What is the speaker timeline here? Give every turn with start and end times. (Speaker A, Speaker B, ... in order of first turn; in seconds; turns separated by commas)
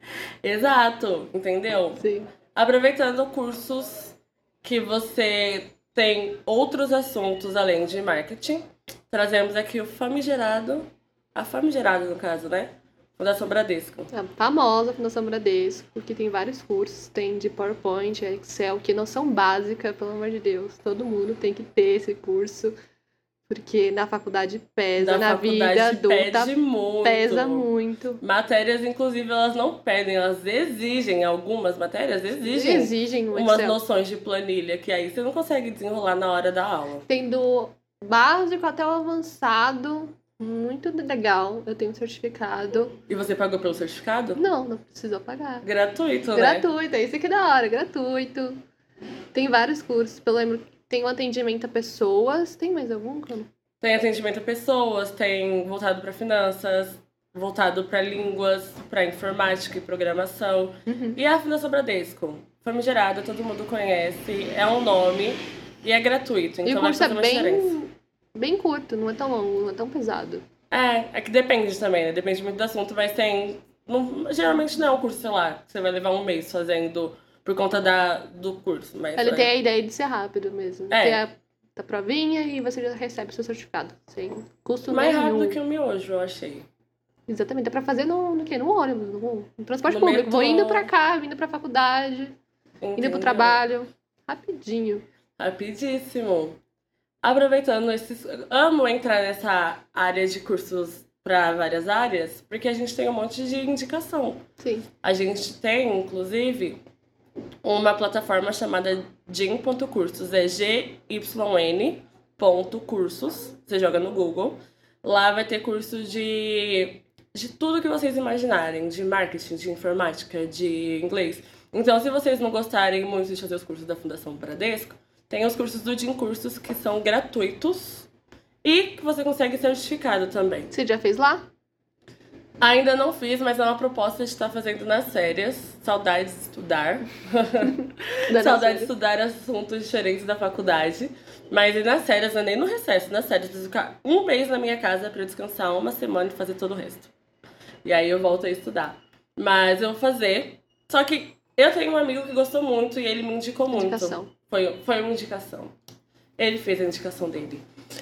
Speaker A: 0.4-14.1, Speaker B: 2.0-2.3, Speaker B: 14.1-22.7, Speaker B: 23.5-28.2, Speaker A: 25.0-27.7, Speaker A: 28.2-37.0, Speaker B: 32.5-33.8, Speaker B: 37.1-43.0, Speaker A: 43.1-44.4, Speaker B: 44.4-45.7, Speaker A: 45.6-46.7, Speaker B: 46.3-48.6, Speaker B: 49.3-53.5, Speaker A: 53.8-67.8, Speaker B: 60.9-61.2, Speaker B: 66.7-70.4, Speaker A: 70.7-79.5, Speaker B: 79.2-85.6, Speaker A: 80.9-81.2, Speaker A: 84.9-86.7, Speaker B: 87.3-92.3, Speaker A: 89.9-90.9, Speaker A: 92.8-93.6, Speaker B: 93.0-95.0, Speaker A: 95.4-96.6, Speaker A: 97.2-104.4, Speaker B: 104.6-104.9, Speaker A: 105.0-106.8, Speaker A: 107.6-128.1, Speaker A: 128.6-130.7, Speaker B: 130.7-131.5, Speaker A: 132.6-147.1, Speaker B: 138.3-138.9, Speaker A: 147.8-155.7, Speaker B: 153.7-154.3, Speaker A: 156.4-157.6